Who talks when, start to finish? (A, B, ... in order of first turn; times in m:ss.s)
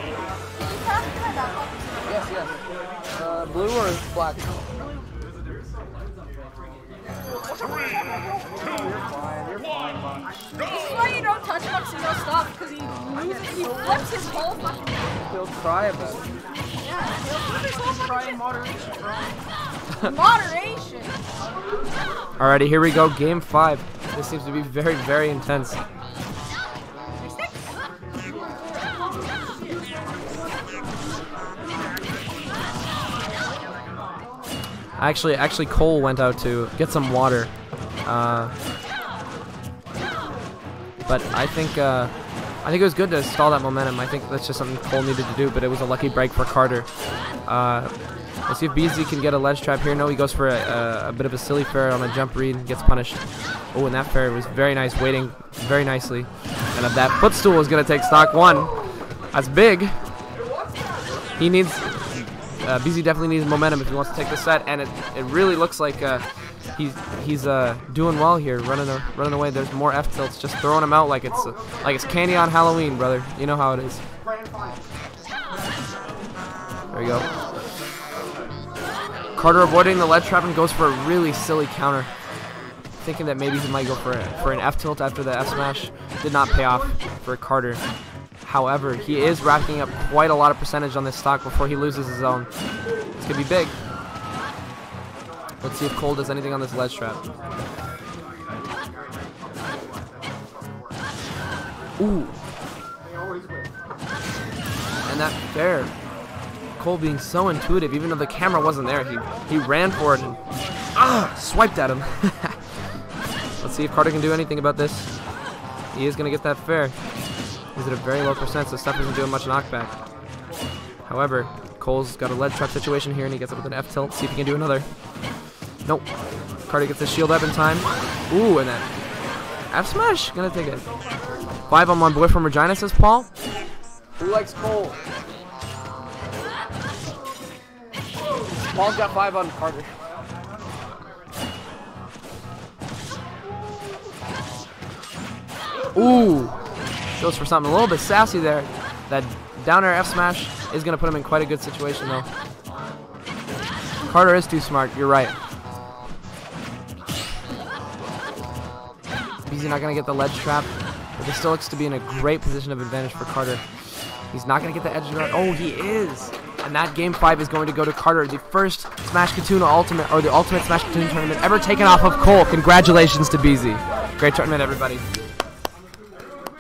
0:00.6-0:02.1 A
0:02.0-0:02.5 B
0:03.1-0:04.5 B
0:07.7-0:08.6 A
0:10.6-0:15.0 A
0:15.2-0:16.2 B
0:16.8-0:19.4 A
0:19.9-0:21.2 A
0:22.4-0:25.8 B
0:27.2-0:27.6 A
0:29.5-0:29.8 A
0:35.0-0:37.5 B
0:38.0-0:38.5 B
0:41.0-0:46.9 B
0:47.5-0:58.8 B
0:59.3-1:00.0 B
1:01.4-1:06.2 B
1:06.8-1:14.0 B
1:16.9-1:17.3 B
1:19.4-1:22.1 B
1:23.0-1:27.8 B
1:28.4-1:32.5 B
1:33.2-1:33.8 B
1:35.6-1:37.2 B
1:42.0-1:42.3 B
1:45.0-1:45.9 B
1:46.8-1:52.6 B
1:53.6-1:55.1 B
1:55.9-1:57.0 B
1:57.8-2:00.0 B
2:01.0-2:04.9 B
2:06.7-2:08.9 B
2:09.7-2:10.8 B
2:11.7-2:13.3 B
2:14.2-2:15.0 B
2:18.7-2:20.0 B
2:25.9-2:26.6 B
2:27.2-2:32.3 B
2:34.1-2:35.4 B
2:39.4-2:43.6 B
2:44.3-2:55.0 B